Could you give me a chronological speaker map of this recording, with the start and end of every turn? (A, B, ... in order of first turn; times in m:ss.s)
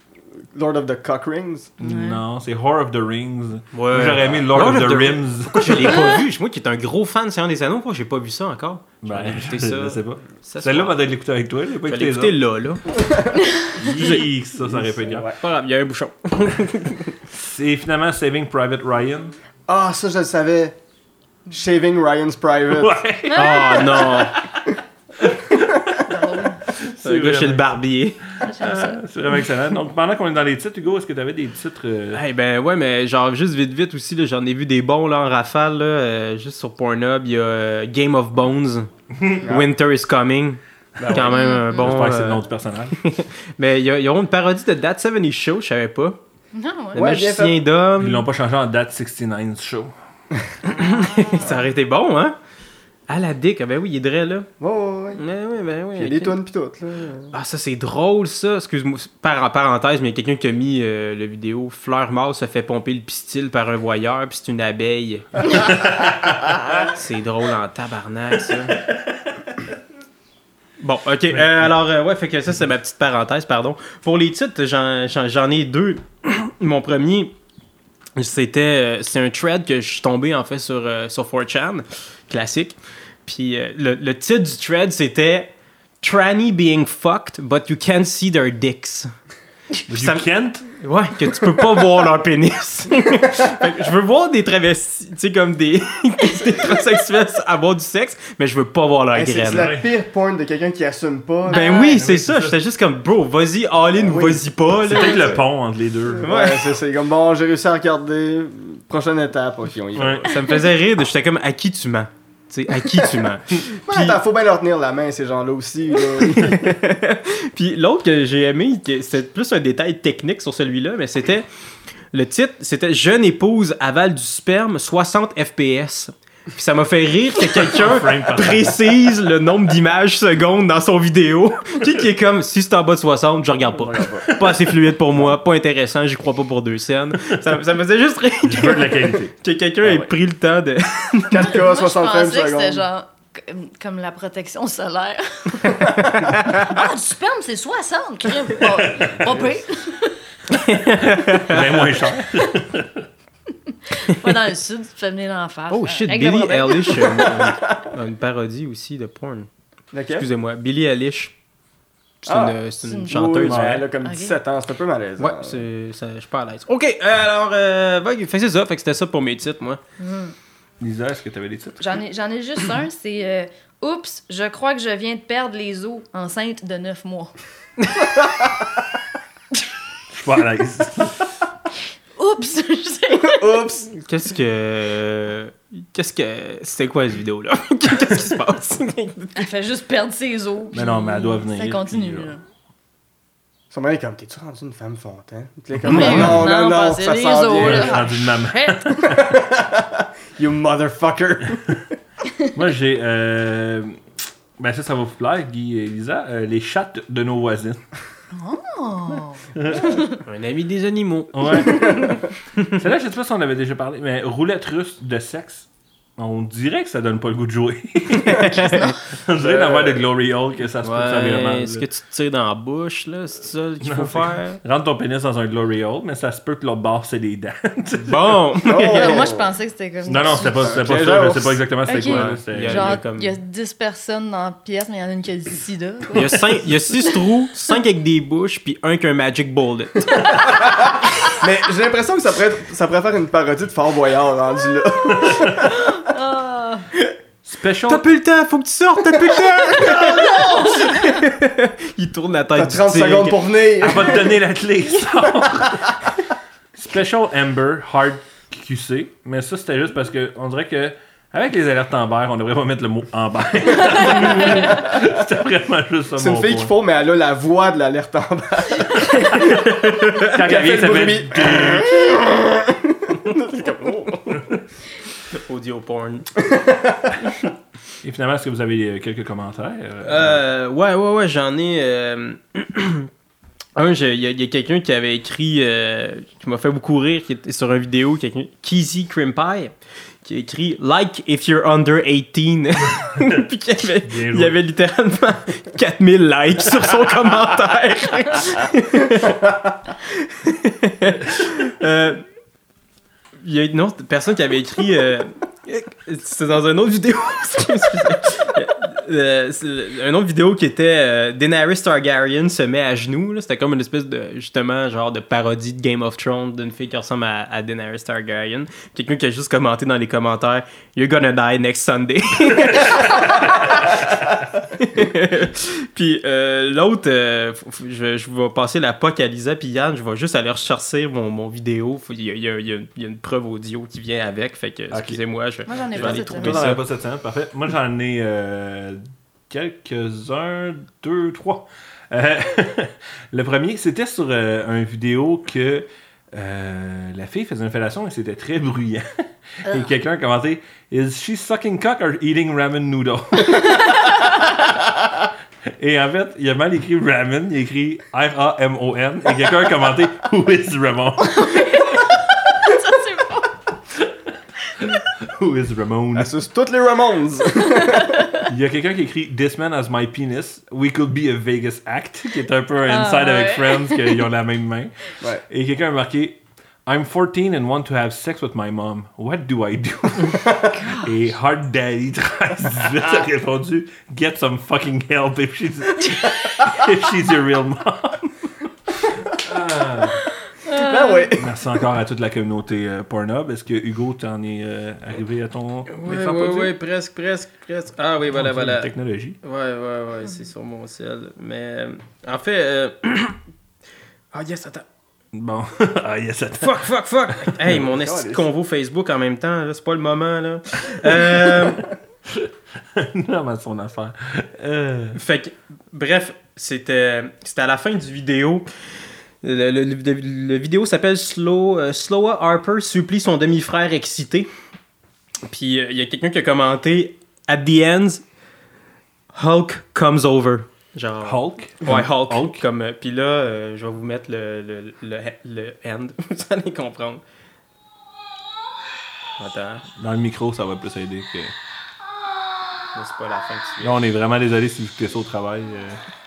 0:00.5-0:01.7 A
0:01.8-0:02.2 B
0:01.8-0:06.1 C
0:03.7-0:11.0 D
0:09.0-0:12.4 C
0:11.8-0:12.9 D
0:13.0-0:13.3 A
0:13.7-0:15.3 C
0:14.6-0:15.4 A
0:15.3-0:17.1 D
0:17.3-0:19.3 C
0:19.7-0:20.8 A
0:21.5-0:23.0 A
0:22.7-0:26.2 C
0:23.3-0:23.7 B
0:23.3-0:24.3 D
0:26.0-0:26.6 B
0:26.7-0:27.7 C
0:27.0-0:28.2 D
0:28.4-0:29.0 B
0:28.5-0:32.2 C
0:32.1-0:38.9 D
0:39.2-0:39.4 C
0:39.4-0:39.7 A
0:39.5-0:46.2 D
0:41.0-0:41.4 A
0:41.3-0:41.8 B
0:41.7-0:43.0 C
0:46.5-0:47.0 B
0:46.9-0:48.3 D
0:46.9-0:47.6 A
0:48.0-0:49.9 C
0:50.7-0:51.6 B
0:50.7-0:52.3 D
0:53.1-0:54.5 D
0:54.6-0:55.2 A
0:55.2-0:56.4 D
0:56.0-0:57.3 A
0:57.3-1:05.6 D
1:05.6-1:06.6 C
1:06.8-1:08.8 D
1:10.8-1:17.3 D
1:11.3-1:11.7 C
1:18.2-1:25.5 D
1:26.0-1:29.1 D
1:29.9-1:39.7 D
1:29.9-1:30.7 C
1:33.2-1:33.5 A
1:39.1-1:41.7 A
1:39.5-1:39.9 C
1:41.5-1:45.4 D
1:41.5-1:42.0 B
1:41.9-1:42.6 C
1:43.9-1:44.5 A
1:44.8-1:46.3 C
1:46.1-1:50.6 A
1:46.2-1:46.7 D
1:49.9-1:50.2 C
1:50.2-1:54.2 D
1:52.7-1:53.2 A
1:53.8-1:56.8 A
1:56.1-2:01.4 D
2:02.1-2:21.5 D
2:07.5-2:08.9 C
2:13.8-2:14.8 A
2:18.4-2:19.3 C
2:19.8-2:20.1 A
2:21.3-2:22.8 A
2:21.4-2:30.2 B
2:25.6-2:26.3 A
2:28.8-2:29.1 C
2:29.0-2:29.5 A
2:30.5-2:32.1 D
2:31.0-2:33.0 C
2:33.9-2:37.3 B
2:35.7-2:39.5 D
2:37.3-2:37.5 A
2:39.9-2:40.2 A
2:40.1-2:41.3 D
2:42.2-2:43.8 D
2:42.2-2:45.6 A
2:42.8-2:43.4 B
2:43.5-2:43.8 C
2:44.0-2:44.4 B
2:45.2-2:49.8 D
2:50.0-2:50.3 B
2:50.8-2:51.8 C
2:51.8-2:57.3 B
2:58.2-2:58.7 A
3:00.1-3:01.3 C
3:02.2-3:03.6 B
3:03.1-3:03.9 A
3:03.9-3:09.5 D
3:09.4-3:12.4 B
3:10.7-3:12.3 C
3:13.7-3:18.2 A
3:15.8-3:16.5 C
3:15.9-3:18.9 B
3:17.6-3:19.4 C
3:19.0-3:21.8 A
3:22.5-3:24.0 C
3:24.6-3:27.8 C
3:28.3-3:30.2 B
3:29.6-3:29.9 C
3:30.2-3:32.0 D
3:31.3-3:32.2 C
3:31.7-3:32.2 A
3:32.7-3:41.8 C
3:38.2-3:38.9 D
3:38.6-3:38.9 B
3:39.3-3:40.0 A
3:40.8-3:44.6 D
3:43.8-3:48.4 C
3:48.0-3:49.3 D
3:48.6-3:49.5 A
3:48.8-3:50.8 B
3:50.0-3:53.0 C
3:50.2-3:52.2 A
3:51.9-3:56.4 B
3:52.0-3:53.4 D
3:56.1-4:00.4 D
4:00.2-4:05.8 A
4:05.2-4:05.6 C
4:05.6-4:06.9 B
4:07.4-4:08.0 C
4:07.9-4:13.4 D
4:09.1-4:10.8 A
4:10.2-4:11.2 B
4:12.5-4:14.3 A
4:13.8-4:16.0 C
4:15.4-4:15.9 A
4:16.7-4:26.7 C
4:24.4-4:24.9 A
4:26.2-4:29.6 A
4:29.4-4:32.1 C
4:30.3-4:34.4 A
4:35.3-4:36.3 D
4:36.4-4:37.2 A
4:38.0-4:40.4 C
4:40.0-4:43.1 D
4:43.8-4:59.4 D
4:53.0-4:53.4 C
4:54.0-4:54.5 C
4:59.2-4:59.6 A
5:00.0-5:02.2 D
5:03.4-5:36.8 D
5:22.8-5:23.1 C
5:23.6-5:23.9 C
5:34.9-5:35.2 C
5:35.7-5:36.7 B
5:35.9-5:49.1 C
5:49.6-5:55.1 C
5:55.8-6:01.8 C
6:01.2-6:03.5 B
6:05.2-6:06.3 C
6:06.1-6:08.3 A
6:07.6-6:08.4 B
6:08.4-6:28.3 C
6:12.8-6:14.2 B
6:20.3-6:20.8 A
6:20.7-6:21.1 B
6:29.0-6:30.2 C
6:30.6-6:31.3 B
6:30.7-6:31.6 A
6:31.4-6:36.7 C
6:35.9-6:38.9 D
6:38.3-6:39.4 C
6:39.4-6:43.4 D
6:44.3-6:44.8 D
6:45.3-6:46.9 C
6:46.6-6:51.9 D
6:47.4-6:47.8 C
6:47.8-6:48.5 A
6:52.3-6:55.2 C
6:55.1-6:58.7 D
6:59.4-7:04.5 D
7:05.5-7:08.2 D
7:09.3-7:17.2 D
7:11.2-7:12.6 C
7:19.4-7:19.8 D
7:20.0-7:21.5 C
7:22.9-7:24.0 D
7:23.8-7:26.0 C